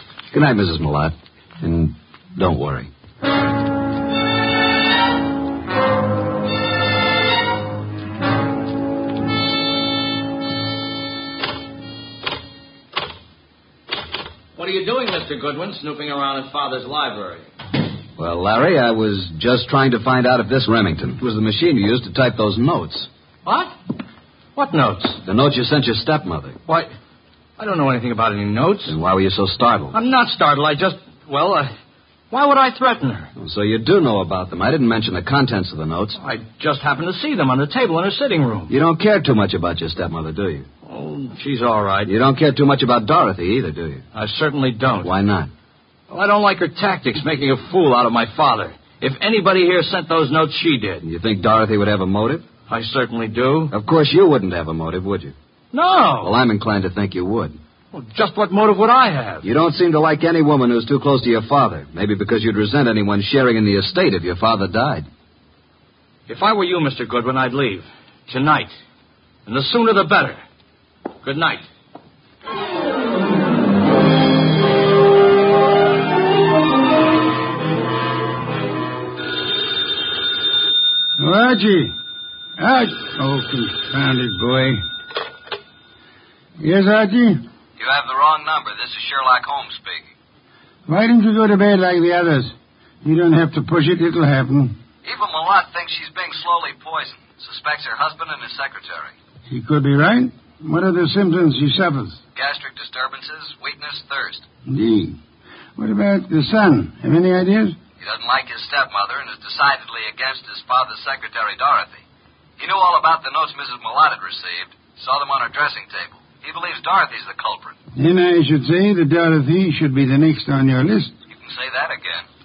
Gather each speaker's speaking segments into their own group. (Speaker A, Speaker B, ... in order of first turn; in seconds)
Speaker A: 0.3-2.9, 18.2-23.1, 25.2-26.6, 28.9-30.0, 33.4-36.2, 38.7-40.7, 42.0-44.0, 45.0-45.5, 51.0-52.5, 53.7-55.4, 56.2-57.6, 59.4-65.1, 87.8-90.1, 95.0-99.1, 102.3-104.5, 108.0-112.0, 112.6-117.8, 121.3-122.3
Speaker B: 14.6-17.5, 23.5-23.8, 24.6-25.2, 27.6-28.9, 29.9-31.7, 32.3-33.3, 36.2-38.7, 40.9-42.1, 44.1-45.1, 46.1-51.0, 52.7-53.7, 55.7-56.3, 57.9-59.5, 66.3-68.7, 69.5-70.4, 71.2-71.7
Speaker C: 81.2-82.0, 82.6-84.8, 86.6-87.4, 90.9-94.8, 99.5-102.2, 104.7-105.2, 105.8-107.8, 118.0-121.1